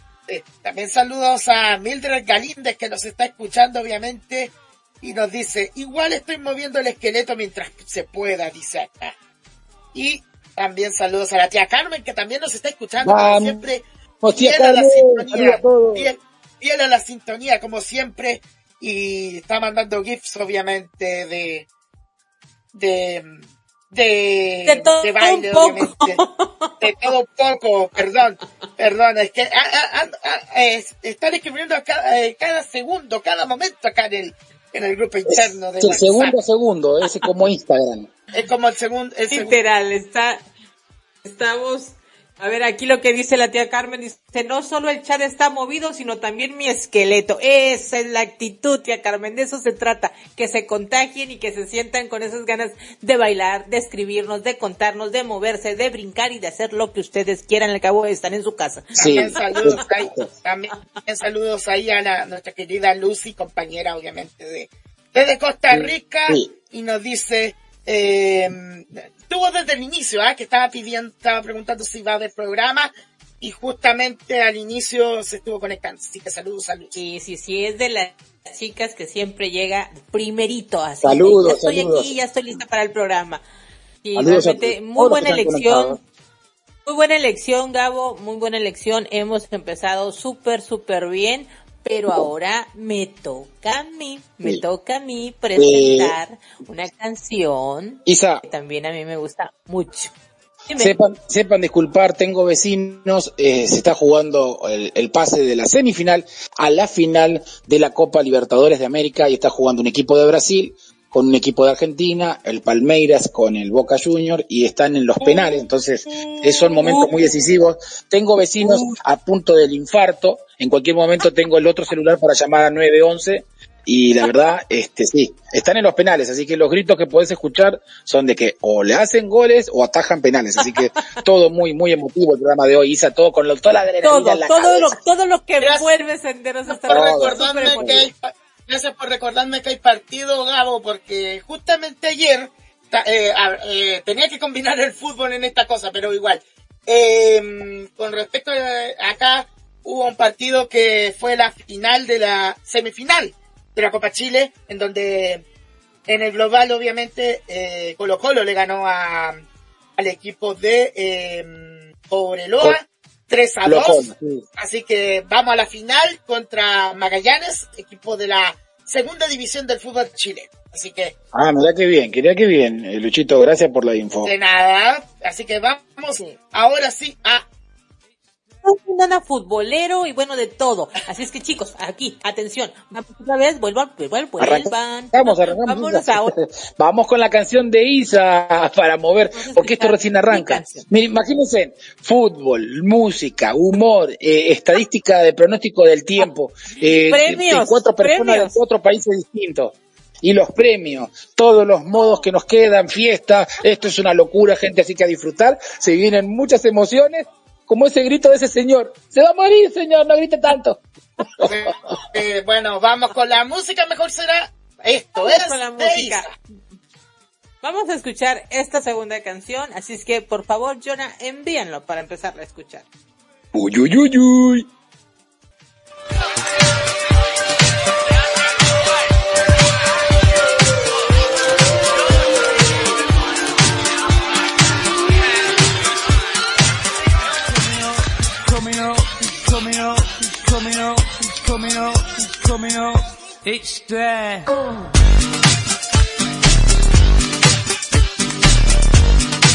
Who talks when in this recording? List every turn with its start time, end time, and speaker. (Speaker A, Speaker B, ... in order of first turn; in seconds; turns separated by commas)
Speaker A: 0.3-9.1, Speaker A: 9.9-21.7, Speaker B: 13.0-13.6, Speaker B: 14.2-16.1, Speaker A: 22.7-26.2, Speaker C: 24.7-26.8, Speaker A: 26.8-36.3, Speaker B: 35.3-38.1, Speaker A: 38.3-39.5, Speaker C: 39.3-40.4, Speaker C: 41.2-59.6, Speaker A: 58.9-72.9, Speaker B: 59.0-60.3, Speaker B: 65.7-66.5, Speaker A: 73.4-76.9, Speaker C: 76.9-83.4, Speaker B: 81.0-82.1, Speaker C: 84.0-86.0, Speaker B: 84.2-86.0, Speaker C: 86.9-100.1, Speaker B: 95.6-96.2, Speaker B: 98.1-98.4, Speaker C: 100.7-100.9, Speaker B: 100.8-135.0, Speaker C: 134.0-138.1, Speaker A: 135.6-135.9, Speaker A: 136.7-155.4, Speaker B: 136.9-138.1, Speaker A: 156.1-159.4, Speaker A: 160.0-171.1, Speaker B: 163.7-164.4, Speaker B: 171.3-174.3, Speaker A: 174.2-177.4, Speaker C: 178.6-186.3, Speaker B: 184.4-211.5, Speaker C: 189.3-190.9, Speaker C: 197.1-198.6, Speaker A: 211.4-216.3, Speaker C: 215.2-216.3, Speaker C: 217.6-222.9, Speaker B: 223.5-224.7, Speaker D: 237.5-244.5